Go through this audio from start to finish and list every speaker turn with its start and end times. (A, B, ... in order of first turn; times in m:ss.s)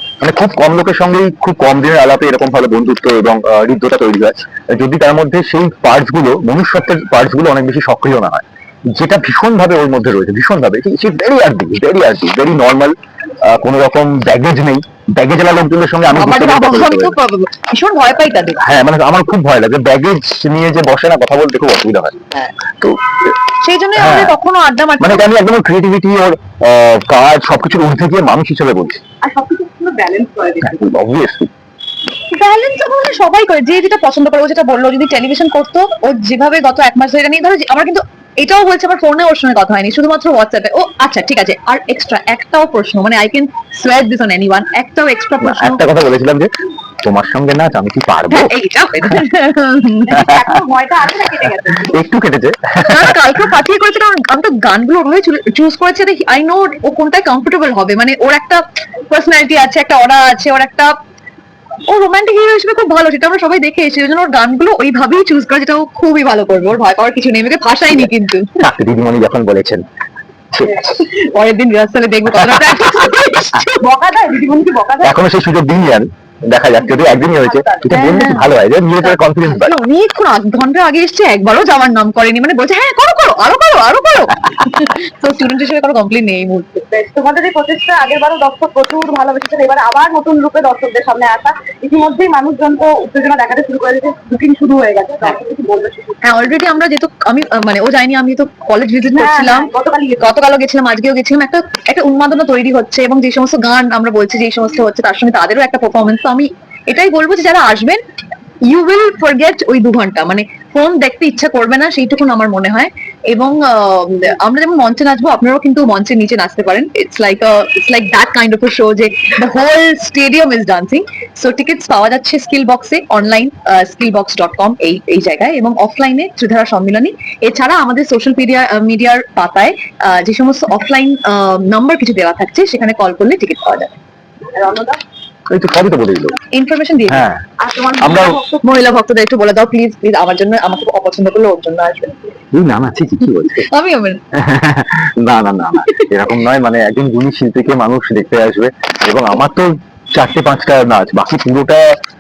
0:00.2-0:17.2 A
0:16.1-0:18.6 B
0:18.6-0:23.3 A
0:23.6-0:25.3 B
0:24.0-0:24.4 A
0:25.0-0:29.0 A
0:29.2-0:30.9 C
0:30.6-0:31.5 A
0:32.3-0:45.8 B
0:45.4-0:46.5 A
0:47.0-0:49.2 A
0:48.3-0:50.3 B
0:50.1-0:52.0 C
0:51.8-0:53.2 A
0:52.8-1:00.9 B
1:01.9-1:08.6 B
1:07.9-1:09.8 A
1:10.5-1:10.9 A
1:10.7-1:13.8 B
1:12.3-1:13.1 A
1:13.7-1:15.2 C
1:15.0-1:19.7 A
1:17.0-1:18.0 C
1:17.9-1:18.5 B
1:19.0-1:26.9 B
1:26.9-1:36.4 C
1:36.2-1:48.0 B
1:39.1-1:40.3 C
1:48.7-2:13.9 B
2:14.6-2:15.0 C
2:15.5-2:16.4 A
2:16.5-2:17.3 B
2:17.1-2:17.4 A
2:17.6-2:18.6 C
2:18.0-2:18.4 A
2:18.6-2:22.2 B
2:22.5-2:23.7 A
2:23.7-2:24.2 B
2:24.3-2:32.0 A